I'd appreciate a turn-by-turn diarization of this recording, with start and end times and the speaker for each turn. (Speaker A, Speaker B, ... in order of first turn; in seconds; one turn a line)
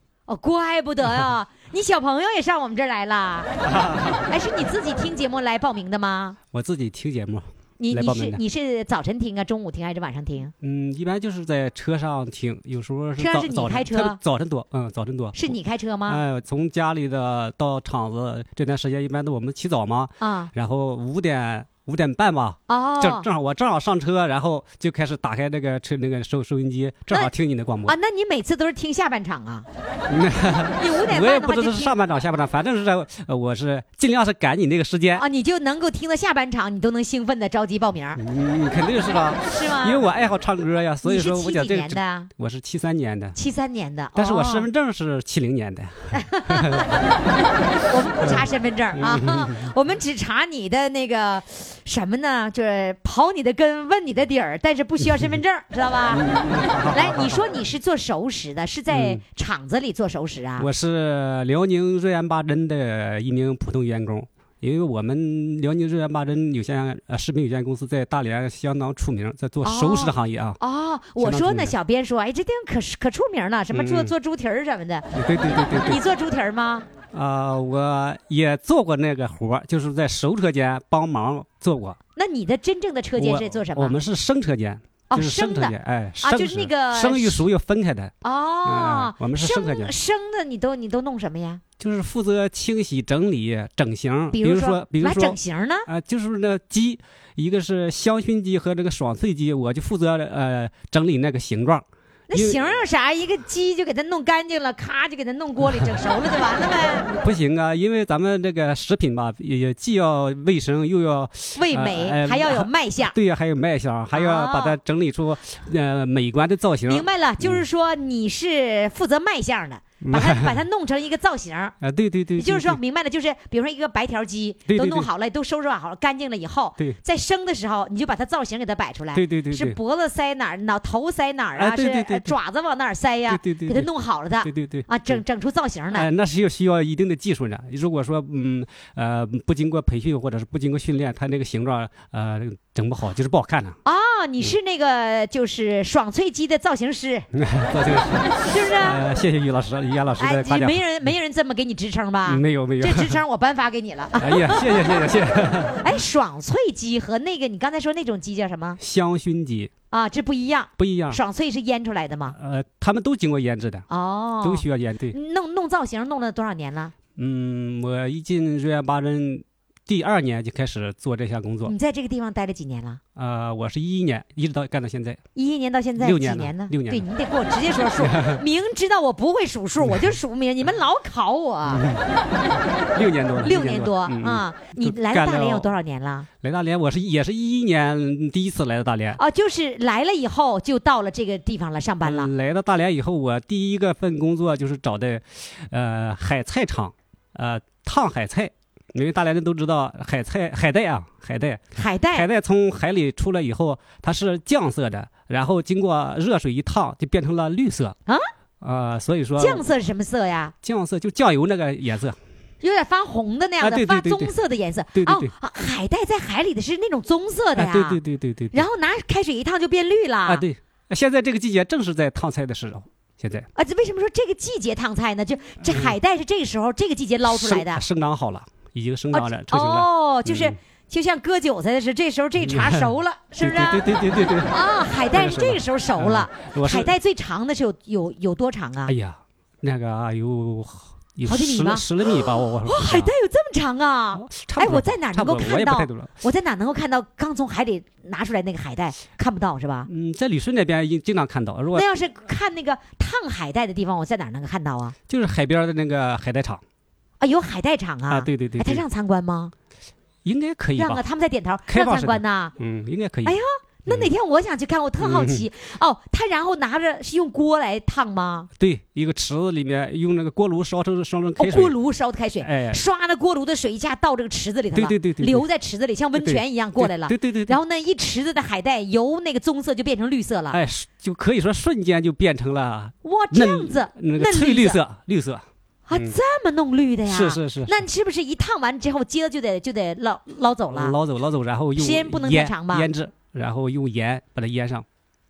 Speaker A: 0.3-3.5
Speaker B: 3.6-4.3
Speaker A: 4.3-6.4
Speaker B: 6.5-8.4
Speaker A: 7.8-10.5
Speaker B: 10.6-15.5
Speaker A: 13.2-14.2
Speaker A: 15.3-16.2
Speaker B: 16.1-28.0
Speaker A: 20.2-20.5
Speaker A: 22.7-23.3
Speaker A: 27.9-29.7
Speaker B: 30.1-35.2
Speaker A: 30.8-31.9
Speaker A: 35.1-38.2
Speaker B: 38.2-43.4
Speaker A: 39.5-40.1
Speaker A: 41.0-42.3
Speaker A: 43.4-44.7
Speaker B: 44.1-46.9
Speaker A: 46.1-47.1
Speaker A: 47.9-56.2
Speaker B: 48.2-49.7
Speaker B: 56.1-57.4
Speaker A: 56.9-60.7
Speaker B: 58.9-59.2
Speaker B: 60.6-70.6
Speaker A: 69.6-75.1
Speaker B: 71.2-71.7
Speaker B: 73.7-74.1
Speaker B: 75.1-76.0
Speaker A: 75.9-76.9
Speaker B: 77.1-82.0
Speaker A: 82.2-84.0
Speaker B: 83.2-88.1
Speaker A: 85.1-87.4
Speaker A: 88.2-91.6
Speaker B: 88.7-89.9
Speaker B: 91.8-102.6
Speaker A: 94.3-95.9
Speaker A: 102.3-107.1
Speaker B: 107.1-117.6
Speaker A: 111.6-113.2
Speaker A: 114.1-114.8
Speaker A: 116.9-121.8
Speaker B: 120.0-120.6
Speaker B: 121.8-122.8
Speaker A: 122.4-136.1
Speaker B: 124.7-125.1
Speaker B: 129.1-129.8
Speaker B: 131.6-132.4
Speaker B: 133.3-133.9
Speaker B: 134.4-135.2
Speaker B: 135.9-143.8
Speaker A: 143.8-147.3
Speaker B: 147.3-150.8
Speaker A: 148.5-149.0
Speaker A: 150.2-155.0
Speaker B: 152.2-153.2
Speaker B: 154.2-155.8
Speaker A: 155.8-158.8
Speaker B: 158.8-159.7
Speaker A: 159.9-162.4
Speaker B: 160.8-161.2
Speaker B: 162.3-163.9
Speaker A: 163.9-166.9
Speaker B: 164.4-165.2
Speaker B: 167.2-171.8
Speaker A: 171.7-173.0
Speaker B: 173.2-175.2
Speaker A: 175.3-181.8
Speaker B: 176.0-177.1
Speaker B: 178.0-178.4
Speaker B: 179.8-180.1
Speaker B: 181.7-182.1
Speaker B: 182.9-185.7
Speaker A: 183.4-186.3
Speaker B: 186.4-189.2
Speaker A: 189.2-192.3
Speaker B: 192.0-208.0
Speaker A: 201.8-202.3
Speaker B: 208.6-209.7
Speaker A: 209.4-210.5
Speaker B: 210.6-212.2
Speaker A: 212.6-218.0
Speaker B: 213.6-214.3
Speaker B: 214.9-215.3
Speaker B: 217.6-218.7
Speaker A: 218.5-220.4
Speaker B: 220.2-223.5
Speaker A: 223.6-227.8
Speaker B: 227.3-230.6
Speaker A: 229.1-233.8
Speaker B: 232.4-234.5
Speaker A: 234.5-238.9
Speaker B: 235.1-236.9
Speaker B: 238.9-243.1
Speaker A: 241.3-249.9
Speaker B: 244.1-246.1
Speaker B: 249.9-251.9
Speaker A: 251.7-254.9
Speaker B: 255.1-256.6
Speaker A: 257.2-259.5
Speaker B: 258.1-258.8
Speaker B: 260.2-261.0
Speaker A: 260.8-262.5
Speaker B: 261.7-264.1
Speaker A: 263.3-268.5
Speaker B: 265.0-265.4
Speaker B: 268.6-271.8
Speaker A: 271.4-280.6
Speaker B: 272.4-272.8
Speaker B: 274.7-275.5
Speaker B: 276.1-277.6
Speaker B: 280.5-286.1
Speaker A: 283.0-284.8
Speaker A: 285.9-290.9
Speaker B: 287.1-287.8
Speaker B: 290.7-294.9
Speaker A: 291.8-292.9